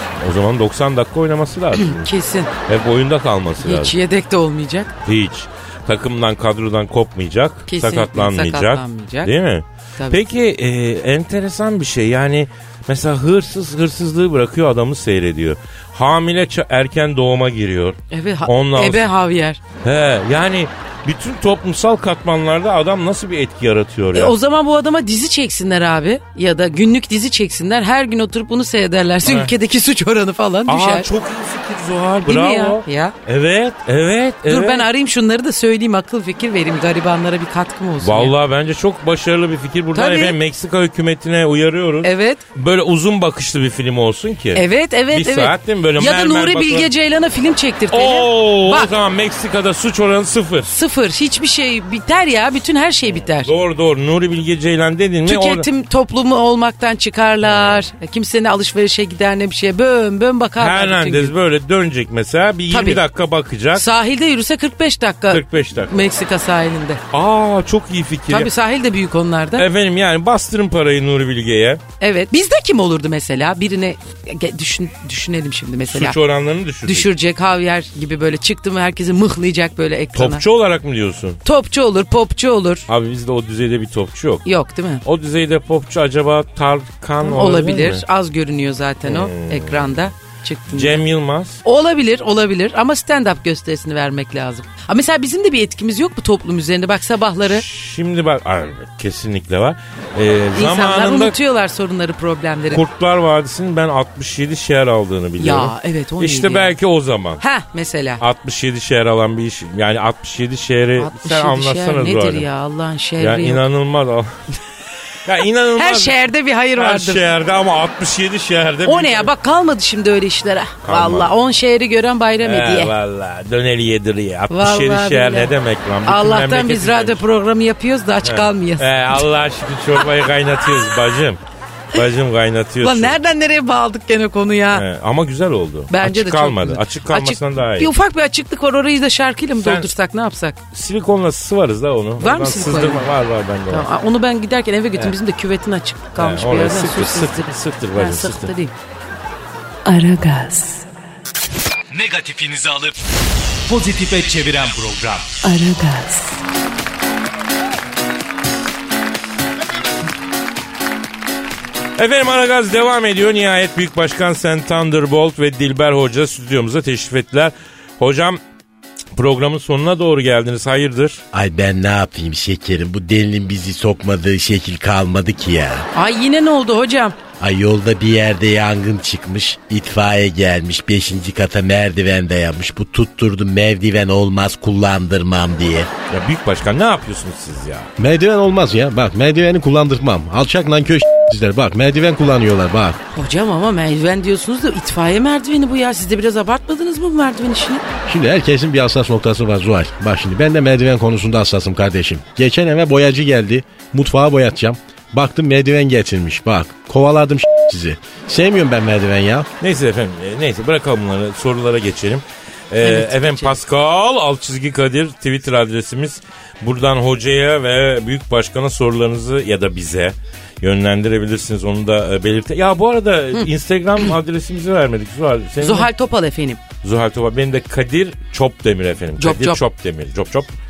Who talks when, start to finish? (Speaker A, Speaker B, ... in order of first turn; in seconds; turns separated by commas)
Speaker A: 0.2-2.1, Speaker B: 1.8-2.5, Speaker A: 2.7-4.0, Speaker B: 3.6-4.9, Speaker A: 5.0-19.1, Speaker B: 7.7-9.3, Speaker B: 18.1-19.6, Speaker A: 19.8-24.4, Speaker B: 24.1-31.1, Speaker A: 29.2-29.5, Speaker A: 30.7-34.9, Speaker B: 32.2-33.1, Speaker B: 34.5-38.4, Speaker A: 38.0-46.9, Speaker B: 39.9-40.4, Speaker B: 42.0-42.4, Speaker B: 44.5-48.9, Speaker A: 47.9-50.7, Speaker B: 50.7-53.5, Speaker A: 53.2-55.7, Speaker B: 55.3-61.3, Speaker A: 57.4-57.8, Speaker A: 60.6-63.9, Speaker B: 62.7-63.0, Speaker B: 63.7-67.0, Speaker A: 65.3-66.1, Speaker A: 67.1-68.5, Speaker B: 68.3-69.7, Speaker A: 69.6-71.8, Speaker B: 72.0-76.2, Speaker A: 75.9-77.1, Speaker B: 76.8-80.5, Speaker A: 80.1-81.4, Speaker B: 81.5-82.9, Speaker A: 82.9-84.5, Speaker B: 84.5-85.0, Speaker A: 85.0-88.0, Speaker B: 87.2-91.0, Speaker A: 89.0-90.0, Speaker A: 90.7-91.6, Speaker B: 91.6-97.6, Speaker A: 97.5-101.4, Speaker B: 100.5-102.8, Speaker A: 102.7-107.4, Speaker B: 105.4-106.8, Speaker B: 107.4-108.2, Speaker A: 108.2-112.5, Speaker B: 111.0-113.7, Speaker A: 113.2-114.3, Speaker A: 115.2-116.2, Speaker B: 115.8-117.2, Speaker A: 116.8-119.3, Speaker B: 118.9-122.9, Speaker A: 120.8-121.3, Speaker A: 122.4-127.2, Speaker B: 124.5-125.5, Speaker B: 126.0-128.9, Speaker A: 128.2-131.4, Speaker A: 131.9-133.2, Speaker B: 132.8-134.8, Speaker A: 134.7-137.9, Speaker B: 135.9-140.6, Speaker A: 139.6-139.9, Speaker A: 140.7-143.9, Speaker B: 142.2-143.1, Speaker B: 143.7-148.7, Speaker A: 146.2-148.5, Speaker C: 149.8-150.9, Speaker D: 151.9-153.0, Speaker D: 153.7-155.4, Speaker C: 155.4-156.4, Speaker A: 162.0-168.4, Speaker A: 169.1-171.2, Speaker E: 171.3-175.9, Speaker B: 175.9-177.2, Speaker E: 177.4-185.9, Speaker A: 186.1-187.9, Speaker F: 188.0-193.0, Speaker B: 193.1-197.8, Speaker F: 198.1-209.5, Speaker A: 209.6-225.9, Speaker B: 212.8-213.6, Speaker B: 225.6-226.6, Speaker A: 226.8-230.5, Speaker B: 229.2-229.6